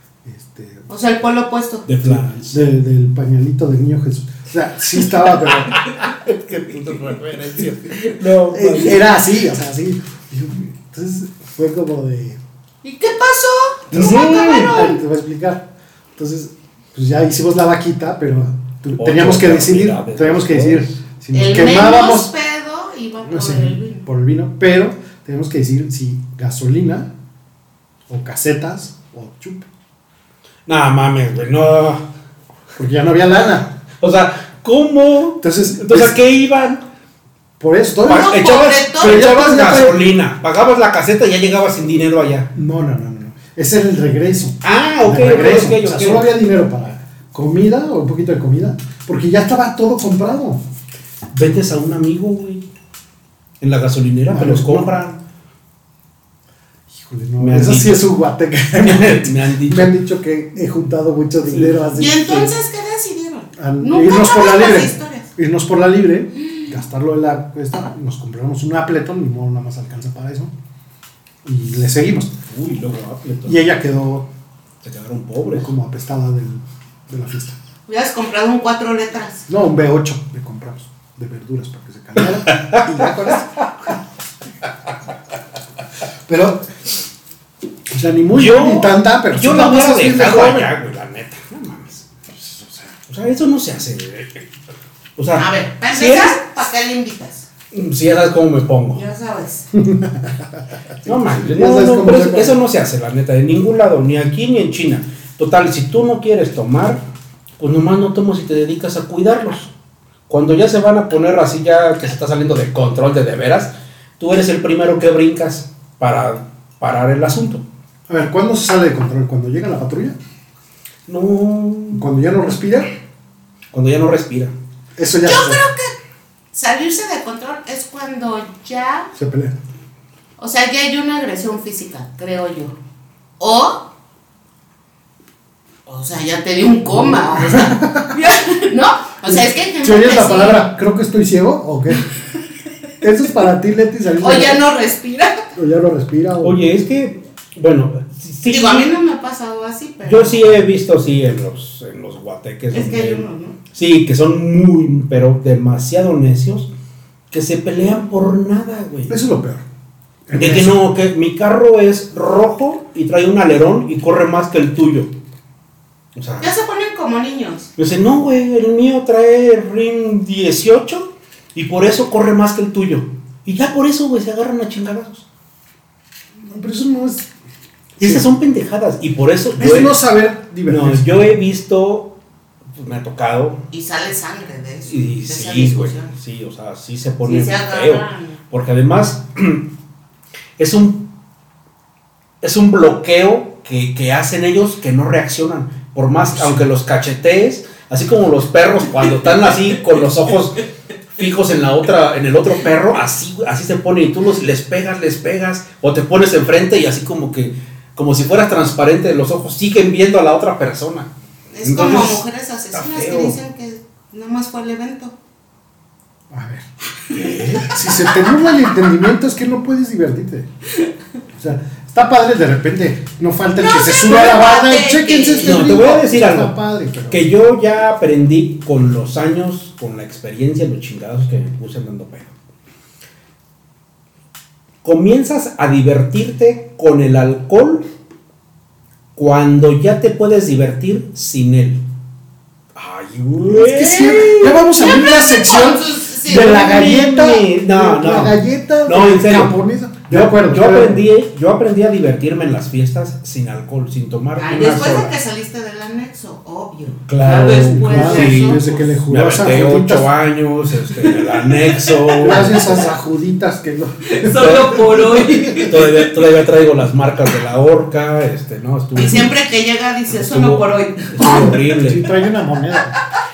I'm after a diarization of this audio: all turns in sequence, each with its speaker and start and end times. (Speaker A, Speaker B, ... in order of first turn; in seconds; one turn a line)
Speaker A: 0.2-0.9
Speaker B: 0.9-1.9
Speaker C: 1.9-2.6
Speaker A: 2.0-5.8
Speaker C: 5.7-9.0
Speaker A: 8.5-12.4
Speaker B: 12.8-15.0
Speaker C: 13.9-14.8
Speaker A: 13.9-22.3
Speaker C: 19.0-20.9
Speaker B: 21.3-24.1
Speaker A: 23.2-27.1
Speaker A: 28.1-29.7
Speaker C: 30.7-32.0
Speaker A: 32.8-33.7
Speaker C: 34.0-36.8
Speaker A: 35.4-36.1
Speaker A: 37.6-38.4
Speaker B: 38.1-39.3
Speaker C: 38.1-42.5
Speaker A: 39.0-40.0
Speaker A: 42.5-50.6
Speaker C: 44.6-46.3
Speaker C: 51.3-52.6
Speaker C: 53.6-55.2
Speaker A: 54.3-54.9
Speaker A: 56.9-62.5
Speaker C: 57.4-58.1
Speaker C: 58.8-59.9
Speaker C: 61.5-61.8
Speaker B: 61.9-65.3
Speaker A: 63.5-70.5
Speaker A: 71.4-72.4
Speaker C: 72.5-73.6
Speaker A: 73.5-74.3
Speaker C: 74.8-75.7
Speaker A: 75.4-77.6
Speaker B: 77.9-79.5
Speaker A: 79.5-84.0
Speaker C: 82.5-83.0
Speaker A: 86.3-86.7
Speaker A: 87.9-90.7
Speaker C: 88.3-92.1
Speaker A: 92.3-93.0
Speaker C: 93.1-94.5
Speaker C: 95.2-96.4
Speaker B: 95.3-97.5
Speaker C: 97.7-99.0
Speaker B: 98.9-99.7
Speaker A: 99.7-102.6
Speaker C: 101.0-107.0
Speaker C: 107.6-109.7
Speaker C: 110.3-117.6
Speaker A: 118.1-120.2
Speaker C: 121.1-122.1
Speaker A: 121.9-122.9
Speaker C: 123.7-124.5
Speaker A: 125.0-125.6
Speaker B: 125.2-125.9
Speaker B: 126.5-129.1
Speaker A: 129.1-129.6
Speaker B: 130.4-132.8
Speaker B: 133.4-133.8
Speaker B: 135.9-140.7
Speaker A: 136.9-138.1
Speaker A: 139.2-142.1
Speaker A: 143.0-144.6
Speaker B: 144.2-145.5
Speaker A: 145.5-146.6
Speaker C: 146.4-148.9
Speaker B: 148.4-150.6
Speaker C: 150.0-156.7
Speaker B: 152.7-153.6
Speaker C: 157.3-159.2
Speaker A: 159.1-159.6
Speaker A: 160.3-160.8
Speaker C: 160.3-165.1
Speaker C: 166.1-166.5
Speaker B: 166.4-167.7
Speaker C: 167.8-175.2
Speaker A: 176.4-177.3
Speaker A: 178.0-178.2
Speaker C: 178.0-179.9
Speaker A: 179.6-181.3
Speaker C: 180.7-182.2
Speaker C: 182.8-183.6
Speaker B: 183.7-186.1
Speaker C: 184.9-189.7
Speaker B: 187.2-188.4
Speaker C: 190.6-191.1
Speaker C: 192.4-211.1
Speaker A: 196.2-196.7
Speaker B: 211.5-215.1
Speaker C: 211.6-213.4
Speaker A: 216.3-216.7
Speaker C: 217.1-217.8
Speaker A: 217.5-220.5
Speaker A: 221.3-227.3
Speaker B: 223.6-225.6
Speaker C: 225.4-226.5
Speaker C: 227.1-232.3
Speaker C: 234.8-237.8
Speaker C: 239.2-241.8
Speaker C: 242.8-244.8
Speaker A: 243.4-251.0
Speaker B: 244.8-246.5
Speaker C: 246.2-249.5
Speaker C: 250.1-255.1
Speaker B: 254.3-258.7
Speaker C: 257.1-262.8
Speaker A: 257.6-260.1
Speaker B: 260.9-262.4
Speaker A: 262.2-265.6
Speaker B: 264.0-266.1
Speaker C: 264.4-269.4
Speaker B: 268.9-271.7
Speaker C: 270.1-272.1
Speaker A: 271.2-272.9